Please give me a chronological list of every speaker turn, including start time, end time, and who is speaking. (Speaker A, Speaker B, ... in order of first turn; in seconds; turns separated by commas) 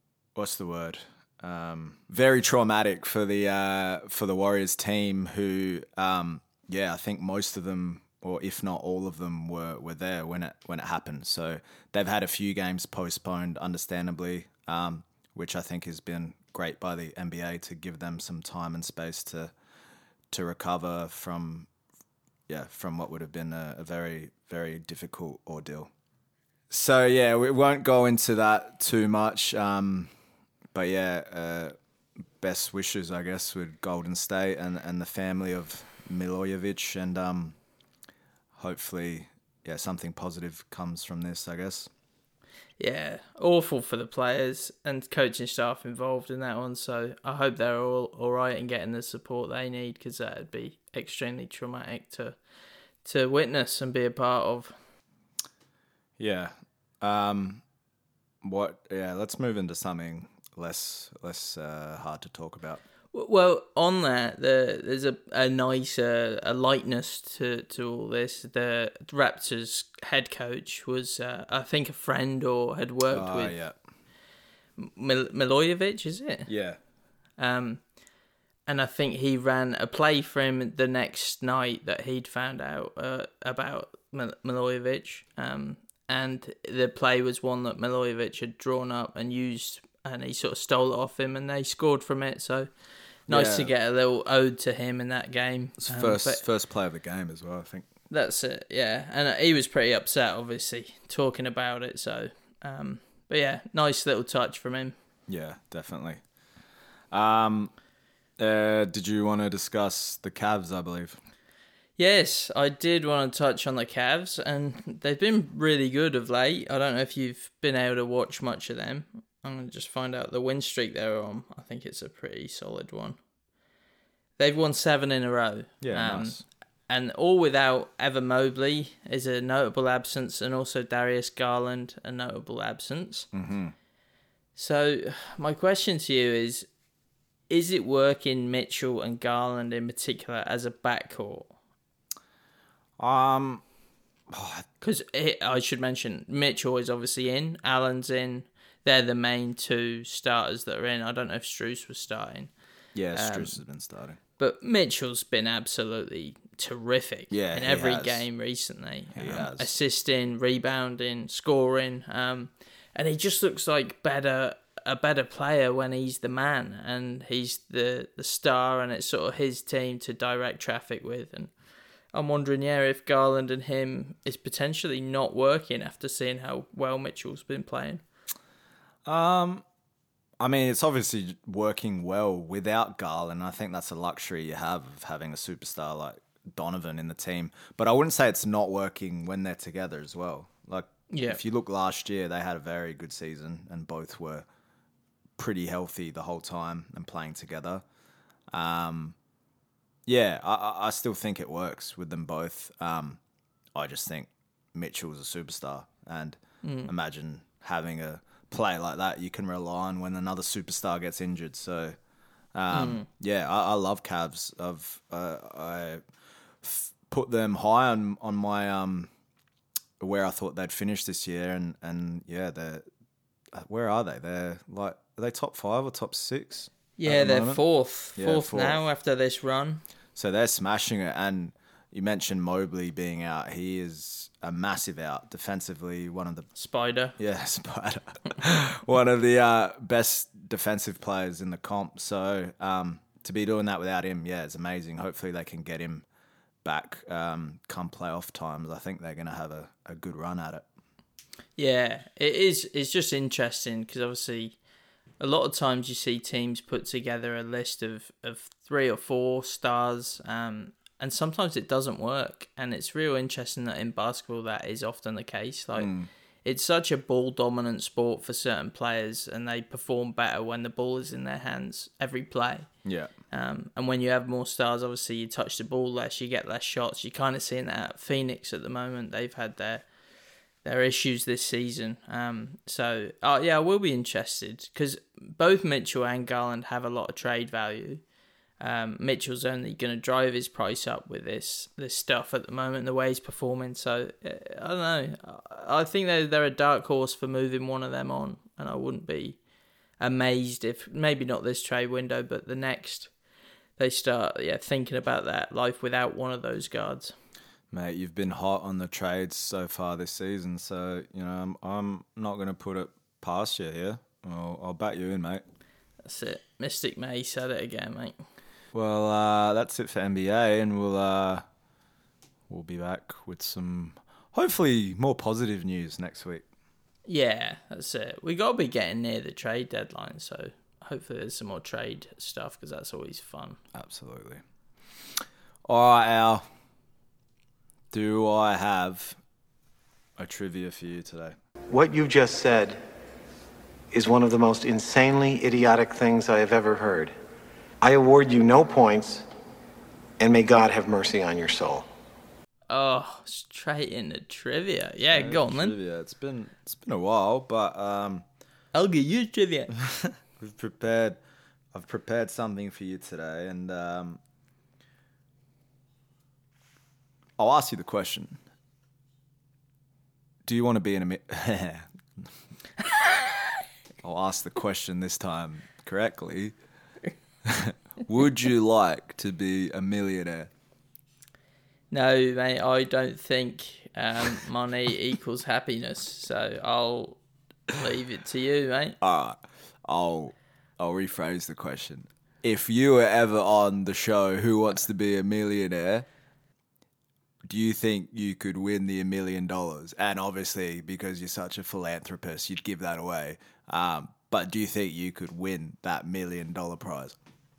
Speaker A: 0.3-19.5, Speaker A: 20.3-21.7, Speaker A: 22.5-25.9, Speaker A: 26.7-30.1, Speaker A: 30.7-31.7, Speaker A: 32.4-37.5, Speaker A: 38.5-41.9, Speaker B: 42.8-52.4, Speaker B: 53.0-54.7, Speaker A: 56.2-57.6, Speaker A: 58.4-62.8, Speaker B: 63.1-73.5, Speaker A: 73.1-73.8, Speaker B: 74.8-76.5, Speaker A: 76.5-76.8, Speaker B: 77.4-77.8, Speaker B: 78.7-92.7, Speaker A: 93.3-93.7, Speaker B: 93.3-96.4, Speaker A: 95.8-97.9, Speaker B: 98.1-104.9, Speaker A: 105.3-106.2, Speaker A: 107.1-107.7, Speaker A: 108.4-111.2, Speaker B: 112.0-123.2, Speaker B: 124.4-133.3, Speaker A: 125.8-126.4, Speaker A: 133.3-133.7, Speaker B: 134.6-136.7, Speaker B: 137.5-141.5, Speaker A: 143.0-143.6, Speaker A: 144.3-144.7, Speaker B: 144.8-152.5, Speaker A: 152.9-154.2, Speaker B: 153.1-153.6, Speaker B: 154.4-171.5, Speaker A: 157.3-158.2, Speaker A: 159.2-159.7, Speaker B: 172.1-178.0, Speaker A: 179.0-179.6, Speaker A: 180.4-194.4, Speaker B: 191.1-191.4, Speaker A: 195.4-197.8, Speaker A: 198.5-199.2, Speaker A: 200.1-203.2, Speaker A: 203.7-211.9, Speaker B: 206.6-206.9, Speaker A: 212.5-216.0, Speaker B: 212.7-213.1, Speaker A: 216.6-219.1, Speaker A: 220.0-222.8, Speaker A: 223.5-227.6, Speaker B: 227.0-229.8, Speaker A: 228.2-228.8, Speaker A: 230.2-236.5, Speaker B: 236.5-237.2, Speaker A: 237.2-246.0, Speaker A: 246.6-250.6, Speaker B: 251.6-254.6, Speaker B: 255.2-265.9, Speaker A: 265.8-266.1, Speaker B: 266.4-272.7, Speaker A: 272.8-273.1, Speaker B: 273.3-279.8, Speaker B: 280.6-288.0, Speaker B: 288.6-299.4, Speaker B: 300.0-303.1, Speaker B: 303.8-307.1, Speaker A: 307.7-315.4, Speaker B: 316.0-318.2, Speaker A: 318.7-321.4, Speaker A: 322.5-326.4, Speaker B: 327.1-333.6, Speaker A: 333.7-334.4, Speaker A: 335.7-336.4, Speaker A: 337.9-339.2, Speaker A: 340.2-341.4, Speaker C: 341.7-342.8, Speaker C: 343.9-347.1, Speaker C: 347.8-349.2, Speaker C: 350.2-351.9, Speaker B: 352.7-355.8, Speaker A: 355.1-358.2, Speaker B: 358.7-359.7, Speaker A: 359.9-361.2, Speaker A: 361.7-364.2, Speaker A: 367.4-368.4, Speaker A: 370.4-372.3, Speaker B: 373.0-373.3, Speaker A: 374.0-376.5, Speaker A: 377.4-380.5, Speaker B: 381.9-387.2, Speaker B: 387.7-389.0, Speaker A: 389.0-396.1, Speaker A: 397.4-407.1